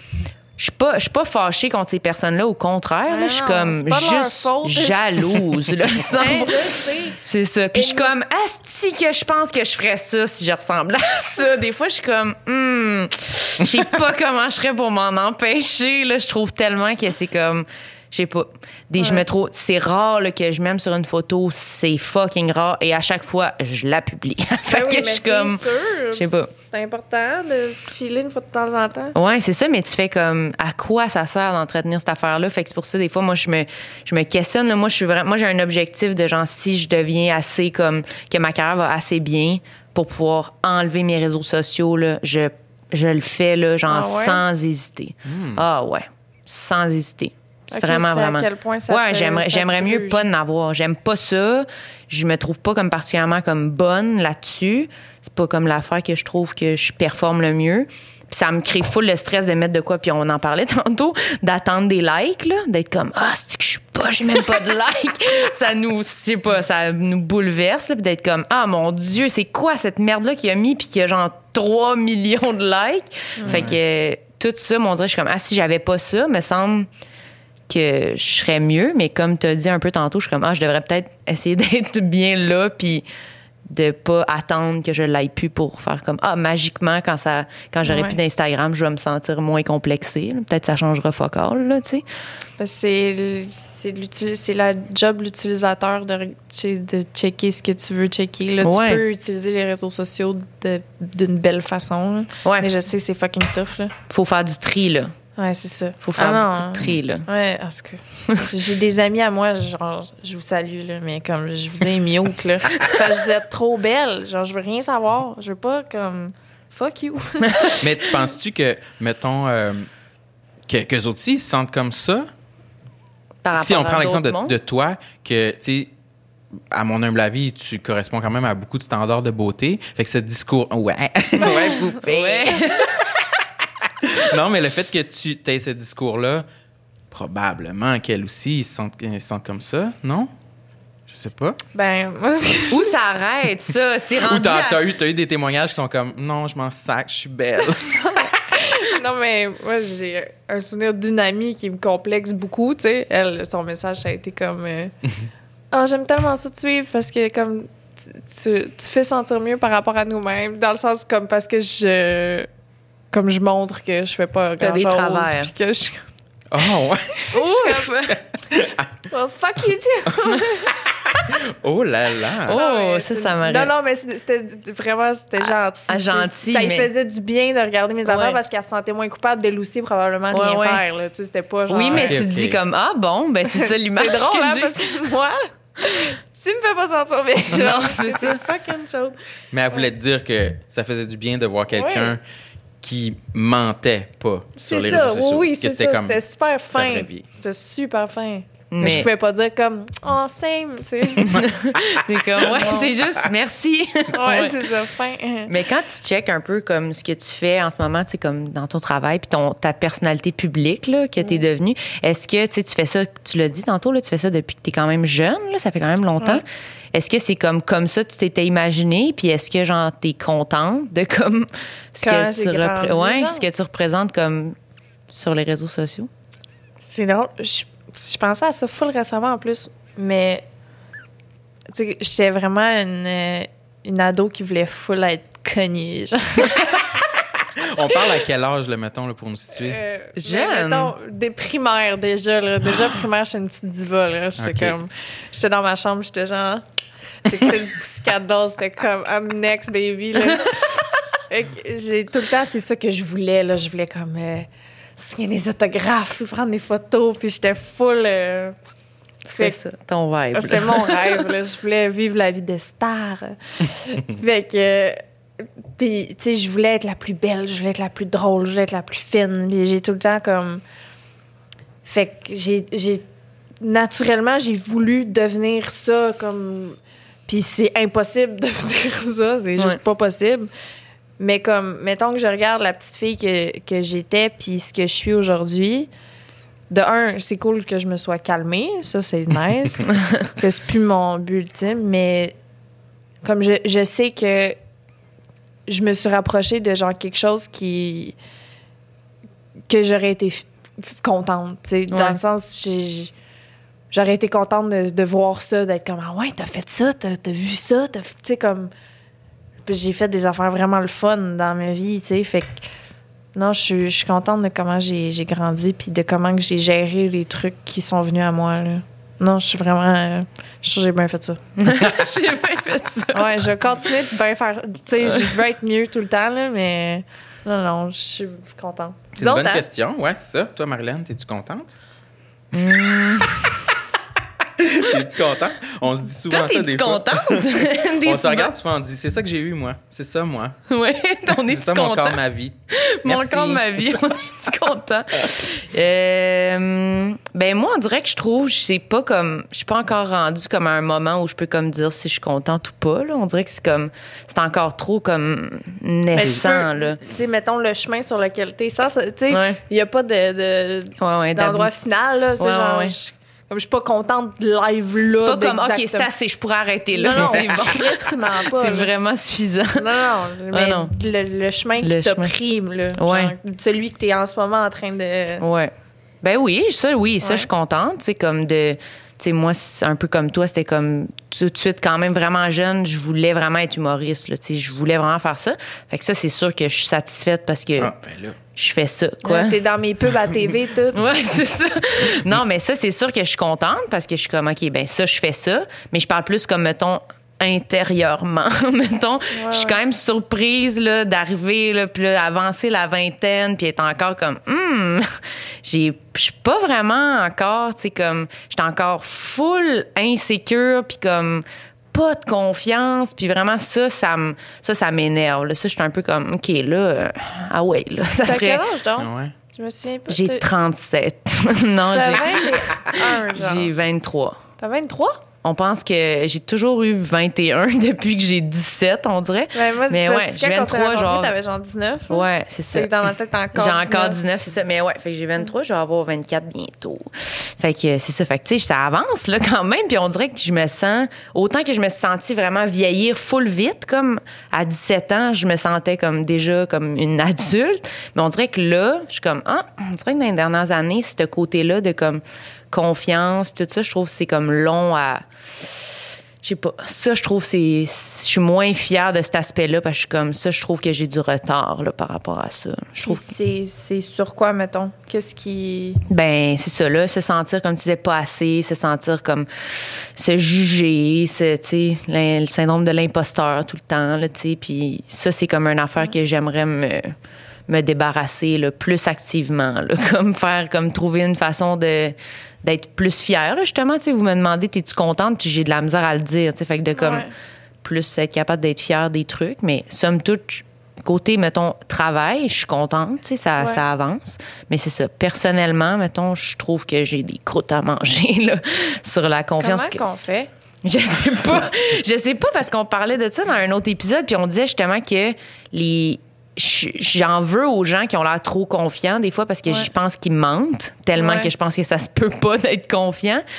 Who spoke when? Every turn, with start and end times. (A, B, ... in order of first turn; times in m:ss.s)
0:00.6-0:25.6 A
0:03.1-0:05.4 B
0:06.0-0:07.2 B
0:07.7-0:08.1 B
0:19.0-0:19.2 B
0:24.7-0:29.2 B
0:26.1-0:26.5 A
0:29.2-1:16.9 A
0:43.9-0:44.4 B
0:45.2-0:45.6 C
0:47.7-0:50.2 B
1:13.4-1:13.7 B
1:13.5-1:13.8 C
1:17.7-1:23.0 A
1:23.7-1:32.0 A
1:27.8-1:28.2 B
1:32.6-1:43.9 B
1:38.6-1:39.0 A
1:42.4-1:42.7 A
1:44.1-1:45.1 A
1:45.4-1:58.1 B
1:46.0-1:47.2 A
1:57.5-1:57.8 A
1:57.8-1:59.9 C
2:00.7-2:02.3 C
2:03.4-2:04.5 A
2:03.5-2:05.9 C
2:06.7-2:12.4 C
2:11.4-2:12.9 A
2:11.5-2:12.6 B
2:13.8-2:16.5 C
2:17.1-2:20.3 C
2:21.1-2:21.6 C
2:21.7-2:23.0 B
2:22.7-2:24.8 A
2:24.2-2:28.3 C
2:28.0-2:34.9 B
2:35.7-2:42.5 B
2:43.1-2:46.1 B
2:44.6-2:45.5 A
2:46.5-2:47.3 C
2:47.3-2:48.2 A
2:47.3-2:48.1 B
2:48.3-2:49.0 C
2:49.1-2:50.8 B
2:50.1-2:52.6 C
2:52.5-2:53.7 A
2:52.5-3:02.2 B
2:55.4-2:56.9 A
2:58.0-2:58.4 A
3:00.3-3:00.8 A
3:01.7-3:04.7 A
3:01.9-3:02.6 C
3:03.5-3:09.2 B
3:07.5-3:08.4 A
3:09.5-3:12.2 C
3:11.8-3:12.2 B
3:12.8-3:16.2 C
3:14.6-3:21.5 B
3:16.7-3:17.3 C
3:18.7-3:19.1 A
3:21.2-3:24.6 A
3:22.4-3:22.9 B
3:24.1-3:25.5 B
3:25.5-3:44.6 A
3:42.0-3:43.4 B
3:45.1-3:46.1 A
3:46.9-3:50.4 B
3:51.7-3:56.9 B
3:57.6-3:59.8 C
3:59.6-4:06.6 B
4:00.2-4:00.9 A
4:04.4-4:04.8 C
4:07.2-4:18.6 B
4:19.3-4:21.3 A
4:20.3-4:30.6 B
4:31.8-4:33.0 B
4:33.6-4:40.5 B
4:41.2-4:45.9 B
4:46.7-4:52.4 B
4:53.2-4:54.6 B
4:55.7-4:58.2 B
4:59.7-5:03.1 B
5:01.9-5:02.2 A
5:03.9-5:08.7 B
5:09.6-5:12.6 B
5:13.4-5:21.4 B
5:21.6-5:23.4 A
5:23.1-5:29.6 B
5:29.2-5:31.8 C
5:32.5-5:33.6 A
5:34.6-5:40.6 C
5:36.3-5:38.5 A
5:40.7-5:42.2 A
5:41.4-5:43.6 C
5:42.7-5:57.0 A
5:56.1-6:06.1 B
5:59.3-5:59.6 A
6:01.0-6:01.7 A
6:02.4-6:02.9 A
6:05.2-6:09.9 A
6:06.9-6:08.9 B
6:09.8-6:15.4 B
6:10.5-6:10.9 A
6:11.8-6:12.3 A
6:13.0-6:13.3 A
6:15.4-6:27.9 A
6:17.2-6:17.5 B
6:27.8-6:28.4 C
6:28.5-6:29.6 A
6:29.2-6:31.0 B
6:30.9-6:58.6 A
6:39.3-6:39.8 B
6:58.2-7:00.4 B
6:59.0-6:59.3 C
7:00.1-7:04.4 A
7:01.9-7:03.7 B
7:04.6-7:05.2 B
7:05.4-7:11.3 A
7:09.5-7:14.2 B
7:12.1-7:12.9 A
7:13.6-7:43.3 A
7:43.0-7:46.0 B
7:46.1-7:57.1 A
7:57.7-8:07.3 A
8:07.0-8:07.3 B
8:07.8-8:20.0 A
8:19.6-8:20.5 B
8:20.8-8:33.4 A
8:31.2-8:31.5 B